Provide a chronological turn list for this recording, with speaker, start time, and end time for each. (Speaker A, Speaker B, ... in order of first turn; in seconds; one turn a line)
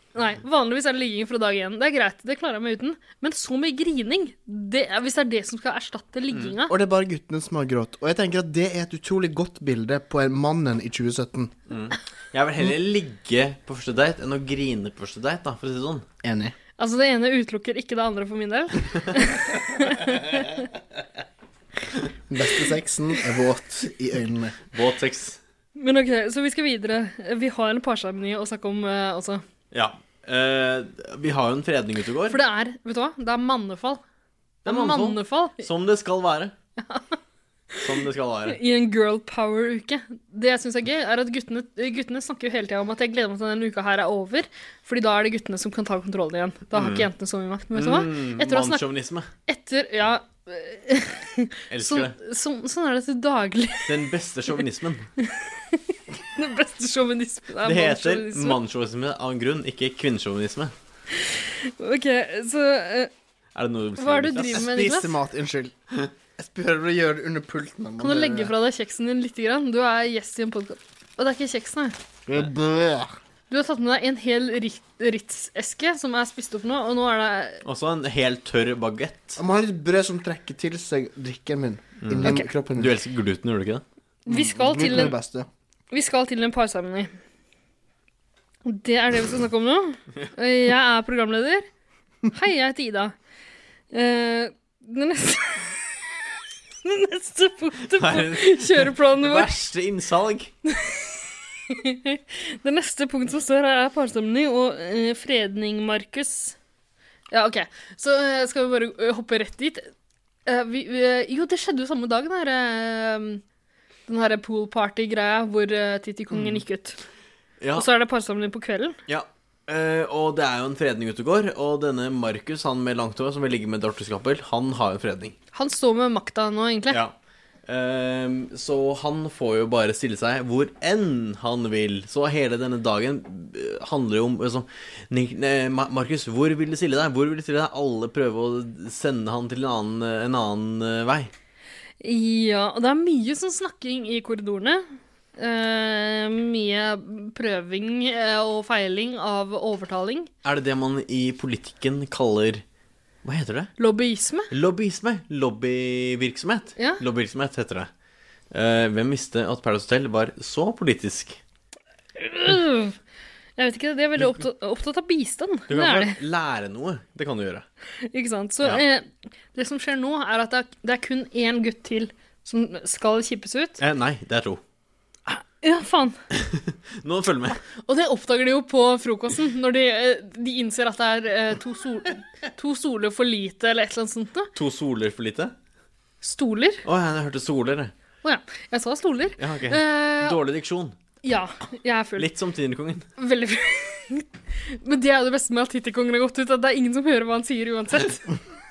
Speaker A: 0.1-6.7
Speaker B: 6.7-11.5
Speaker C: 11.7-16.1
Speaker B: 16.2-16.5
Speaker A: 16.8-20.4
Speaker B: 22.3-24.6
Speaker C: 24.7-25.4
Speaker A: 25.8-29.4
Speaker C: 29.7-32.4
Speaker A: 32.3-34.0
Speaker C: 34.6-36.5
Speaker A: 34.6-35.6
Speaker A: 36.8-37.0
Speaker C: 37.8-38.6
Speaker A: 38.5-48.8
Speaker C: 46.7-47.1
Speaker C: 47.7-49.3
Speaker A: 49.5-53.9
Speaker C: 51.7-52.1
Speaker C: 53.9-55.1
Speaker A: 55.2-58.6
Speaker C: 57.6-60.7
Speaker A: 61.2-63.1
Speaker C: 63.5-64.8
Speaker A: 64.0-65.1
Speaker B: 64.5-65.7
Speaker B: 66.4-68.5
Speaker A: 68.0-72.0
Speaker B: 72.3-73.1
Speaker A: 73.5-77.6
Speaker C: 77.6-79.4
Speaker B: 79.4-82.9
Speaker C: 82.0-83.8
Speaker A: 84.3-85.2
Speaker B: 84.3-85.5
Speaker A: 85.9-87.1
Speaker A: 88.6-91.7
Speaker A: 92.3-93.1
Speaker A: 93.9-95.7
Speaker A: 96.8-99.5
Speaker C: 97.9-100.5
Speaker A: 100.7-106.5
Speaker A: 107.3-109.9
Speaker A: 110.5-113.4
Speaker A: 114.1-117.0
Speaker C: 117.6-117.9
Speaker A: 117.8-119.0
Speaker C: 119.1-125.3
Speaker A: 125.5-127.0
Speaker C: 127.7-141.3
Speaker A: 142.0-144.8
Speaker A: 145.4-150.3
Speaker C: 150.4-152.6
Speaker C: 153.2-153.7
Speaker A: 153.8-154.5
Speaker C: 154.5-157.9
Speaker C: 158.5-161.4
Speaker A: 162.2-162.9
Speaker A: 163.6-166.2
Speaker C: 165.7-167.6
Speaker A: 168.1-173.8
Speaker C: 173.8-174.6
Speaker A: 175.3-176.2
Speaker C: 176.3-177.6
Speaker A: 177.8-184.5
Speaker C: 184.5-185.5
Speaker A: 186.2-186.8
Speaker C: 186.8-187.9
Speaker A: 188.2-190.4
Speaker C: 189.4-190.9
Speaker A: 191.2-192.3
Speaker C: 192.2-193.1
Speaker A: 193.2-198.4